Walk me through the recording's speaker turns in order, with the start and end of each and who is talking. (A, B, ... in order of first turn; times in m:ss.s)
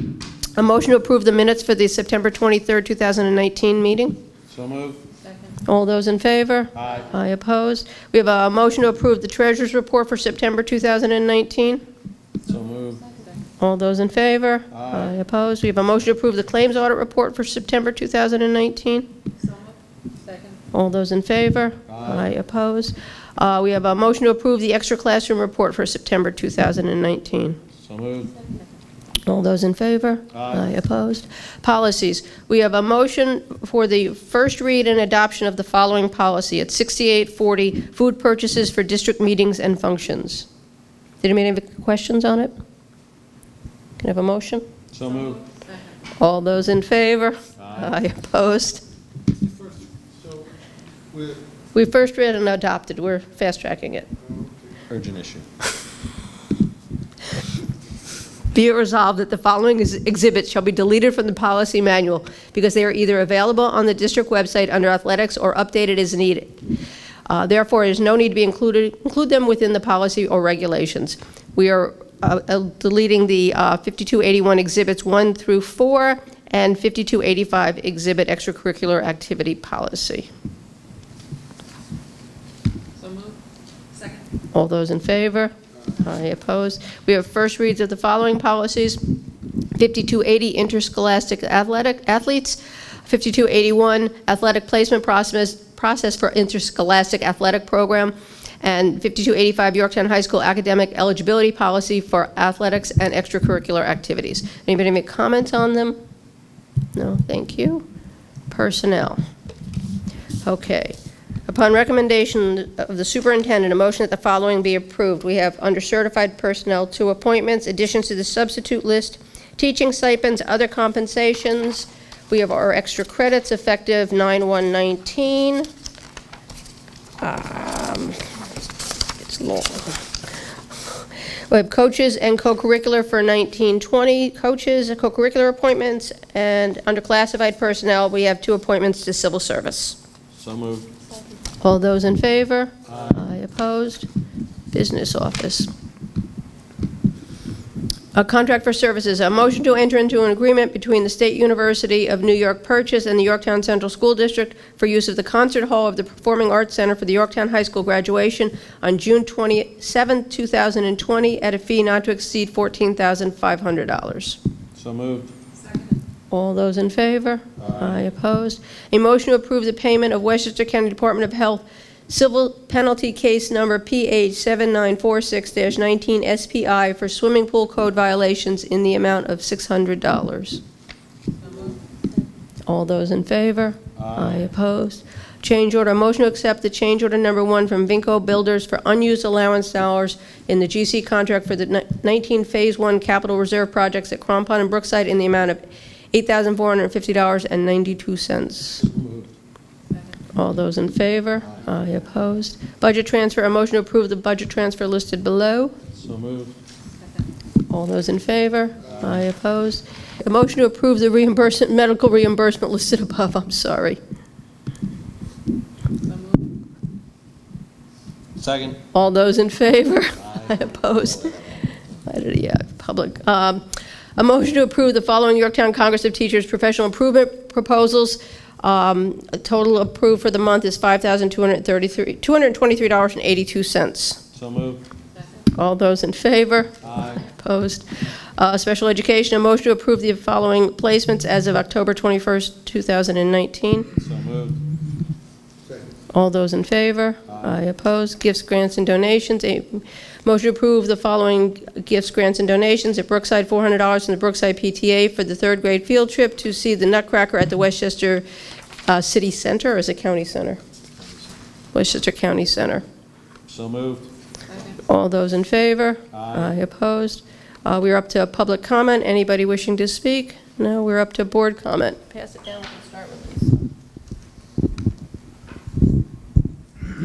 0:00.6-0:04.2 A
0:04.5-0:05.0 B
0:05.6-0:11.8 A
0:06.8-0:07.0 B
0:12.4-0:13.1 B
0:13.1-0:13.4 C
0:13.6-0:19.1 A
0:14.7-0:15.1 B
0:19.5-0:20.6 C
0:20.7-0:27.6 A
0:21.9-0:22.3 B
0:27.8-0:28.4 B
0:29.3-0:40.5 A
0:30.3-0:30.7 B
0:41.2-0:42.5 A
0:44.0-0:44.6 A
0:44.9-0:45.5 B
0:46.2-0:48.8 A
0:47.6-0:48.0 B
0:49.4-0:50.5 D
0:51.1-0:51.4 D
0:51.8-0:54.1 A
0:54.2-0:54.8 D
0:54.9-0:55.5 B
0:58.5-1:06.6 A
1:07.3-1:20.3 A
1:23.0-1:23.4 C
1:24.0-1:24.2 C
1:24.5-1:29.0 A
1:29.8-1:46.0 A
1:47.0-1:47.8 A
1:48.5-1:49.2 A
1:50.4-1:51.0 A
1:51.5-2:05.7 A
2:07.2-2:08.3 A
2:09.1-2:10.1 A
2:11.5-2:20.0 A
2:20.3-2:20.9 B
2:21.6-2:24.1 A
2:24.7-2:25.7 A
2:28.2-2:44.4 A
2:44.8-2:45.3 B
2:46.3-3:00.6 A
3:02.7-3:18.9 A
3:04.0-3:04.5 B
3:18.9-3:19.3 B
3:20.3-3:25.8 A
3:25.9-3:26.6 B
3:27.7-3:34.0 A
3:36.1-3:36.4 C
3:38.4-3:38.8 B
3:38.9-3:41.4 A
3:40.4-3:41.4 B
3:42.1-3:43.6 A
3:44.2-3:54.2 A
3:54.3-3:54.8 B
3:55.5-3:57.9 A
3:56.8-3:57.2 B
3:58.4-4:03.9 A
4:04.0-4:04.6 B
4:06.1-4:18.2 A
4:18.9-4:20.6 A
4:21.7-4:22.8 A
4:23.5-4:24.1 B
4:24.7-4:33.6 A
4:26.1-4:26.6 B